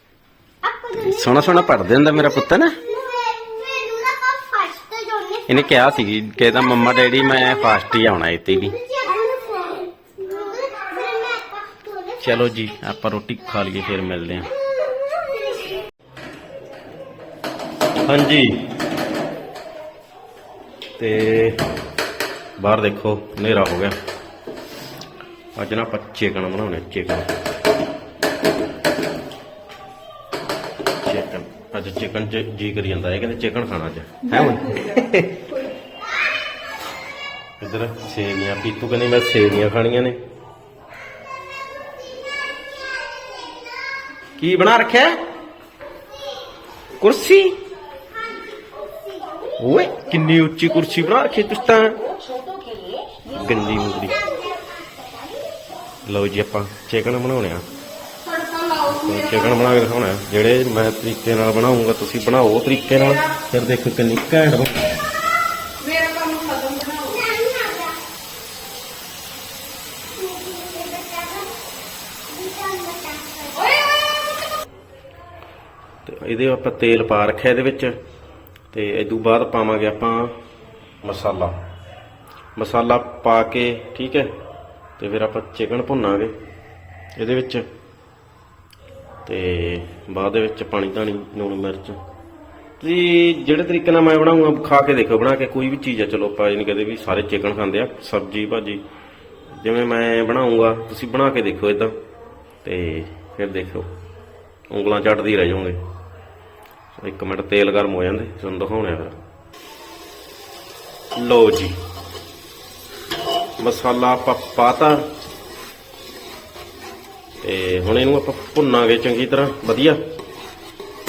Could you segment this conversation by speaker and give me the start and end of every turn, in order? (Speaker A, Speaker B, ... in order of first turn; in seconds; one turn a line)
Speaker A: 0.6-8.0
Speaker B: 0.9-2.8
Speaker B: 5.5-8.8
Speaker A: 8.5-12.9
Speaker B: 12.2-14.5
Speaker A: 13.5-13.8
Speaker A: 14.3-15.8
Speaker B: 18.1-18.5
Speaker B: 21.0-21.6
Speaker B: 22.6-23.9
Speaker B: 25.6-27.3
Speaker B: 31.0-35.3
Speaker A: 36.0-36.3
Speaker B: 37.6-40.2
Speaker A: 43.0-43.7
Speaker B: 44.4-45.2
Speaker A: 45.9-46.5
Speaker B: 47.0-47.6
Speaker A: 48.2-50.1
Speaker B: 49.6-52.0
Speaker A: 50.9-51.2
Speaker A: 53.2-55.5
Speaker B: 53.3-54.2
Speaker B: 56.0-57.7
Speaker C: 58.2-59.5
Speaker B: 58.9-64.8
Speaker C: 65.8-67.1
Speaker A: 67.0-68.0
Speaker A: 70.1-71.5
Speaker A: 72.3-73.8
Speaker B: 76.0-77.9
Speaker B: 78.7-80.3
Speaker B: 81.0-81.5
Speaker B: 82.5-84.3
Speaker B: 85.0-86.3
Speaker B: 87.2-87.7
Speaker B: 89.2-92.0
Speaker B: 92.8-98.8
Speaker B: 99.5-101.9
Speaker B: 102.6-103.9
Speaker B: 104.7-105.8
Speaker B: 107.0-109.1
Speaker B: 111.2-111.8
Speaker B: 113.6-115.0
Speaker B: 117.4-120.0